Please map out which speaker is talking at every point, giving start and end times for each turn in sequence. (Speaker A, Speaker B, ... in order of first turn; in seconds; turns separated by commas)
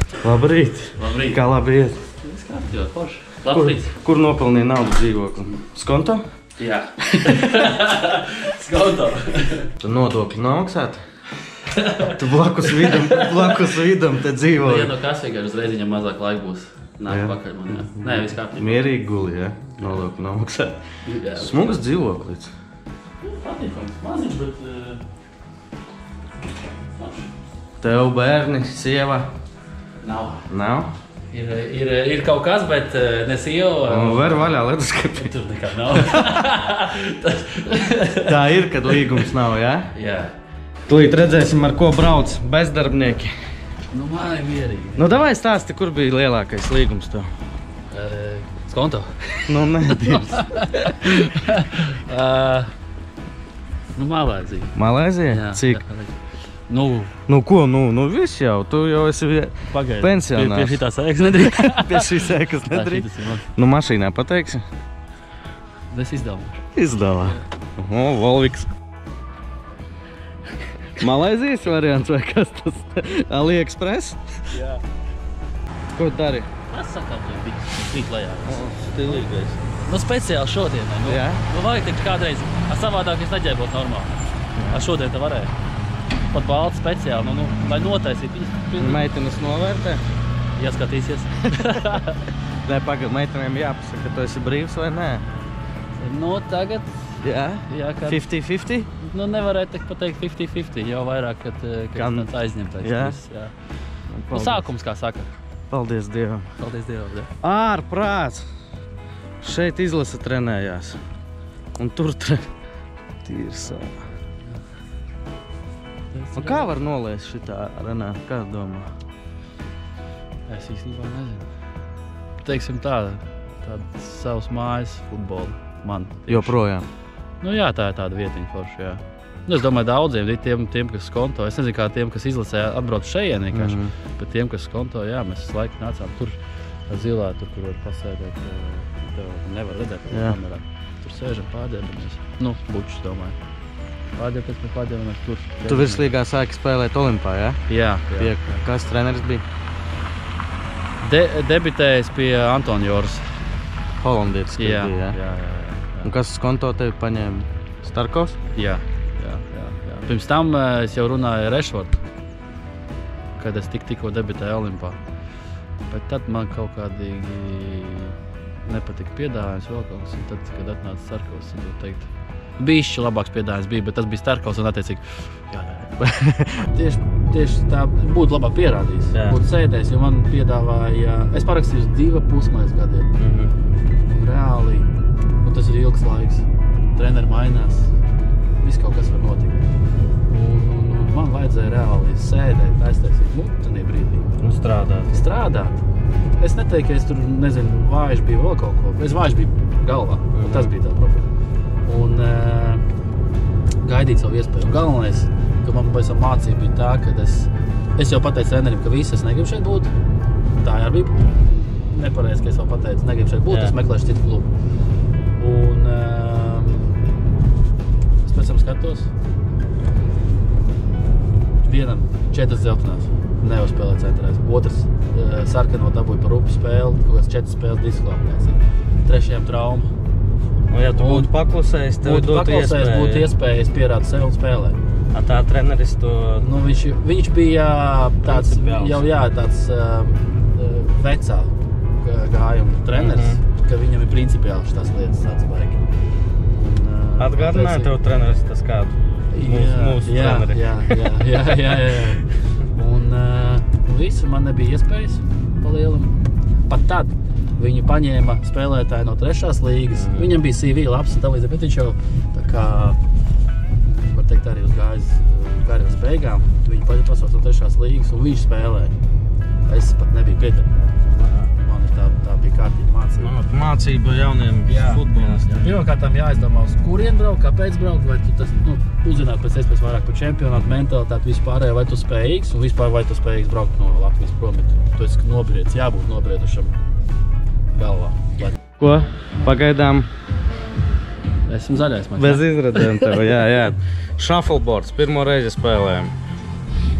Speaker A: 0.2-2.0, Speaker B: 1.0-1.4, Speaker B: 2.2-3.9, Speaker A: 3.5-6.2, Speaker B: 6.6-9.7, Speaker A: 9.8-11.0, Speaker B: 11.7-12.1, Speaker A: 12.0-14.9, Speaker B: 12.7-13.6, Speaker B: 14.6-18.9, Speaker A: 17.1-20.8, Speaker B: 21.0-21.8, Speaker A: 21.3-22.5, Speaker B: 23.2-25.0, Speaker B: 27.0-27.3, Speaker A: 27.8-29.3, Speaker B: 30.0-30.4, Speaker A: 30.5-30.9, Speaker B: 31.3-34.5, Speaker A: 33.9-35.3, Speaker B: 35.1-38.4, Speaker A: 35.9-36.3, Speaker A: 38.2-39.9, Speaker B: 39.9-40.3, Speaker A: 40.9-43.3, Speaker B: 43.9-45.2, Speaker A: 45.0-47.3, Speaker B: 47.9-52.7, Speaker A: 49.5-50.4, Speaker B: 54.0-54.7, Speaker A: 54.7-55.8, Speaker B: 55.3-57.1, Speaker A: 57.3-60.8, Speaker B: 59.7-62.1, Speaker A: 61.4-64.6, Speaker B: 62.7-63.5, Speaker B: 65.9-66.6, Speaker A: 66.7-68.7, Speaker A: 71.0-74.4, Speaker B: 74.5-74.8, Speaker A: 75.9-76.5, Speaker B: 76.7-78.7, Speaker A: 78.4-79.6, Speaker B: 79.8-85.5, Speaker A: 81.1-81.4, Speaker A: 84.6-84.8, Speaker B: 86.3-89.1, Speaker A: 88.8-90.0, Speaker B: 90.5-92.2, Speaker A: 92.6-95.2, Speaker B: 96.0-98.2, Speaker A: 97.2-98.9, Speaker B: 99.0-103.5, Speaker A: 101.9-103.2, Speaker A: 104.1-104.6, Speaker B: 104.3-105.3, Speaker A: 105.7-106.5, Speaker B: 106.6-107.3, Speaker A: 107.4-108.4, Speaker A: 109.4-111.0, Speaker A: 111.8-112.5, Speaker A: 113.2-113.9, Speaker B: 116.1-116.7, Speaker A: 116.3-118.9, Speaker B: 120.5-121.5, Speaker B: 122.4-126.6, Speaker A: 126.3-126.8, Speaker B: 127.4-136.4, Speaker A: 133.5-133.9, Speaker B: 136.9-143.4, Speaker A: 140.1-140.4, Speaker B: 144.1-146.1, Speaker A: 145.7-147.6, Speaker B: 147.7-148.4, Speaker A: 148.2-149.4, Speaker B: 151.0-153.3, Speaker A: 154.0-155.2, Speaker B: 154.6-156.1, Speaker A: 156.0-158.4, Speaker B: 158.5-162.0, Speaker B: 163.4-165.0, Speaker B: 165.9-176.0, Speaker A: 176.0-176.5, Speaker B: 176.5-183.1, Speaker A: 179.1-179.4, Speaker A: 183.2-183.5, Speaker B: 184.1-184.9, Speaker B: 185.4-186.4, Speaker B: 186.9-187.9, Speaker B: 188.6-189.6, Speaker B: 190.3-194.3, Speaker A: 194.4-195.2, Speaker B: 195.1-195.8, Speaker B: 196.4-201.3, Speaker A: 200.3-200.7, Speaker B: 201.8-202.8, Speaker B: 203.8-209.9, Speaker B: 210.6-214.5, Speaker A: 213.5-213.7, Speaker B: 215.4-217.0, Speaker B: 218.2-219.1, Speaker B: 221.6-229.9, Speaker A: 230.7-233.3, Speaker B: 230.9-231.3, Speaker B: 232.0-234.8, Speaker A: 235.1-236.4, Speaker B: 236.4-245.8, Speaker A: 238.2-239.0, Speaker A: 242.9-243.4, Speaker B: 246.5-247.9, Speaker A: 247.2-251.1, Speaker B: 249.3-263.0, Speaker A: 259.9-260.4, Speaker B: 263.8-268.9, Speaker B: 269.7-270.7, Speaker A: 271.1-271.5, Speaker B: 271.6-273.3, Speaker A: 273.2-275.7, Speaker B: 274.6-286.8, Speaker B: 287.7-288.6, Speaker A: 288.8-290.1, Speaker B: 291.5-293.1, Speaker A: 292.1-296.1